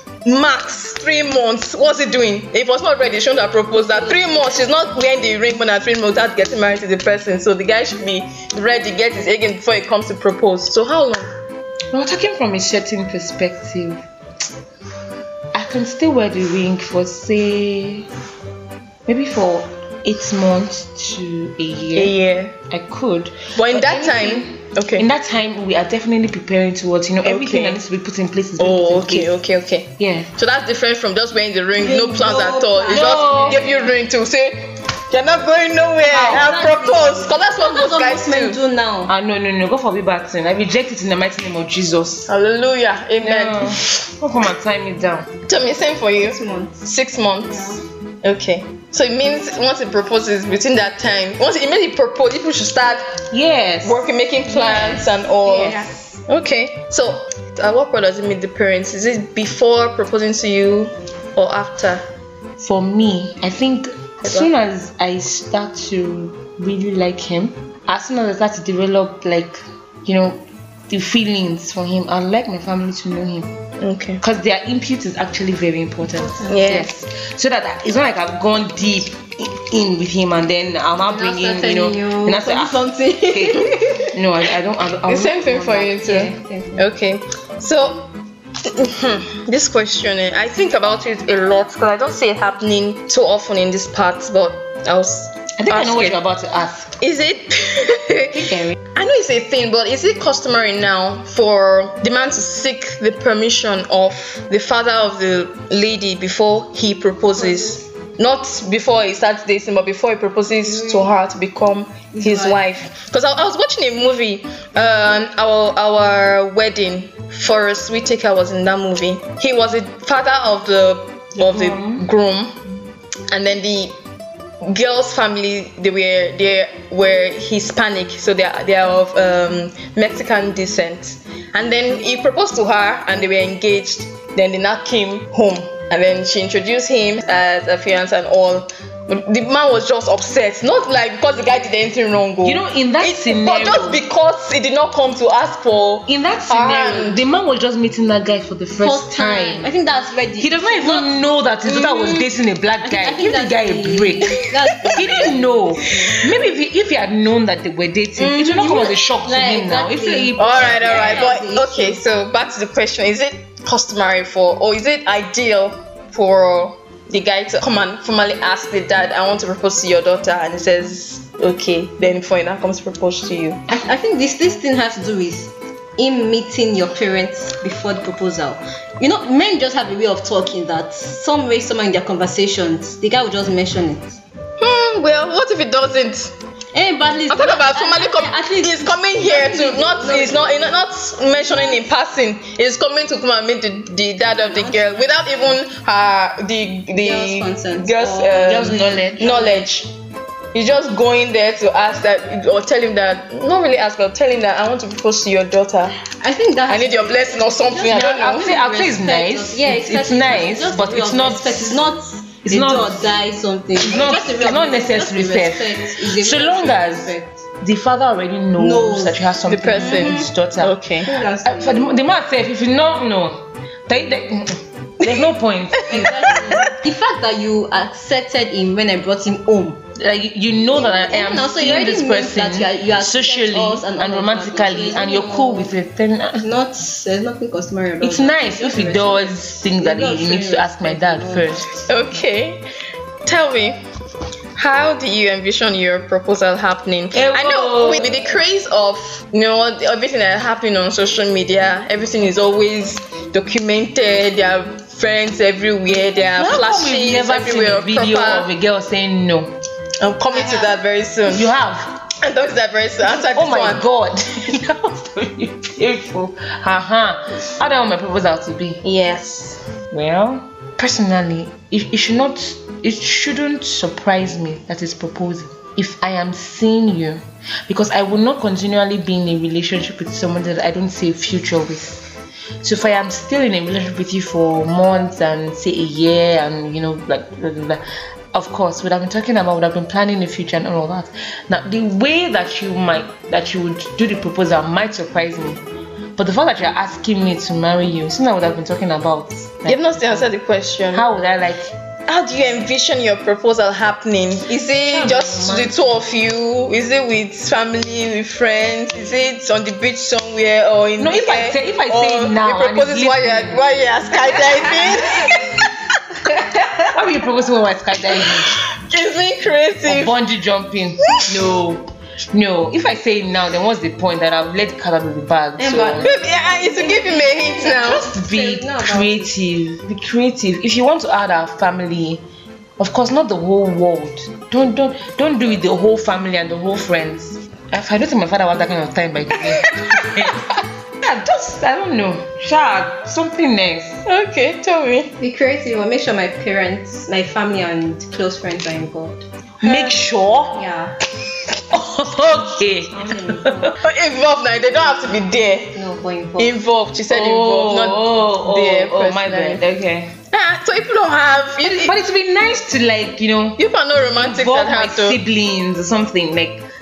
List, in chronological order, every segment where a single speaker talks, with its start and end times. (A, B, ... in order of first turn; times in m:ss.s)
0:00.2-0:11.3 A
0:11.9-0:14.0 B
0:15.5-0:18.1 B
0:19.1-0:22.2 B
0:21.9-0:22.5 A
0:22.7-0:29.4 B
0:23.6-0:25.1 A
0:27.2-0:27.8 A
0:28.6-0:38.6 A
0:30.0-0:30.3 B
0:31.8-0:33.9 C
0:32.9-0:33.6 B
0:36.0-0:39.1 C
0:39.1-0:42.3 B
0:42.3-0:44.0 A
0:43.2-0:45.3 B
0:45.5-0:53.2 A
0:46.2-0:46.8 C
0:47.5-0:47.8 C
0:53.3-0:55.9 B
0:53.8-1:02.0 A
0:54.6-0:55.0 C
0:55.6-0:55.9 C
1:02.6-1:13.5 B
1:13.8-1:14.2 A
1:14.2-1:26.1 B
1:16.0-1:16.6 C
1:16.5-1:16.9 A
1:21.1-1:24.1 C
1:25.1-1:28.1 A
1:26.0-1:26.8 C
1:28.6-1:36.2 A
1:35.6-1:37.0 B
1:37.0-2:02.6 A
1:38.4-1:38.8 B
1:47.4-1:47.8 C
1:50.7-1:51.1 C
1:52.1-1:52.6 C
2:01.4-2:02.1 B
2:03.3-2:04.0 A
2:04.6-2:27.2 A
2:22.4-2:24.0 B
2:26.1-2:29.7 B
2:28.8-2:31.1 C
2:30.4-2:41.3 B
2:31.7-2:32.1 C
2:32.8-2:36.2 C
2:38.2-2:38.9 A
2:38.8-2:42.0 C
2:40.4-2:53.6 A
2:53.7-3:04.2 C
3:04.6-3:06.3 A
3:06.7-3:10.7 C
3:07.3-3:19.9 A
3:14.4-3:15.5 C
3:16.9-3:19.6 C
3:18.4-3:19.4 B
3:20.5-3:26.0 A
3:26.2-3:37.4 C
3:26.7-3:28.5 A
3:27.9-3:31.8 B
3:32.4-3:33.0 B
3:33.8-3:40.8 B
3:38.6-3:40.3 C
3:39.5-3:41.1 A
3:41.0-3:42.0 C
3:41.4-3:46.2 B
3:45.9-3:49.8 C
3:50.0-3:56.5 B
3:50.7-3:55.7 C
3:56.4-4:01.6 C
3:58.0-4:01.7 B
4:01.9-4:02.6 A
4:03.2-4:03.8 A
4:04.6-4:18.5 A
4:07.1-4:08.2 B
4:16.4-4:19.5 B
4:20.0-4:21.5 A
4:20.3-4:20.8 C
4:21.3-4:22.0 B
4:22.2-4:23.8 A
4:23.1-4:28.8 B
4:28.8-4:29.6 A
4:29.9-4:42.0 B
4:42.6-4:55.6 B
4:56.2-5:00.3 B
4:59.7-5:01.1 A
5:00.9-5:01.7 B
5:02.1-5:15.7 A
5:04.8-5:05.9 B
5:11.0-5:13.6 B
5:14.5-5:15.0 C
5:16.9-5:18.5 B
5:18.5-5:20.2 A
5:19.9-5:26.1 B
5:25.6-5:29.3 C
5:26.0-5:28.1 A
5:27.8-5:32.2 B
5:32.8-5:40.4 B
5:41.0-5:44.0 B
5:44.1-5:45.1 A
5:45.2-5:50.0 C
5:49.6-5:50.6 B
5:50.5-5:51.0 C
5:51.7-5:53.8 B
5:53.0-5:53.7 C
5:53.8-5:55.8 A
5:55.7-5:56.5 C
5:56.4-5:59.6 A
5:57.1-6:00.1 B
6:00.3-6:02.0 A
6:01.6-6:03.6 B
6:03.6-6:05.2 A
6:04.2-6:06.6 B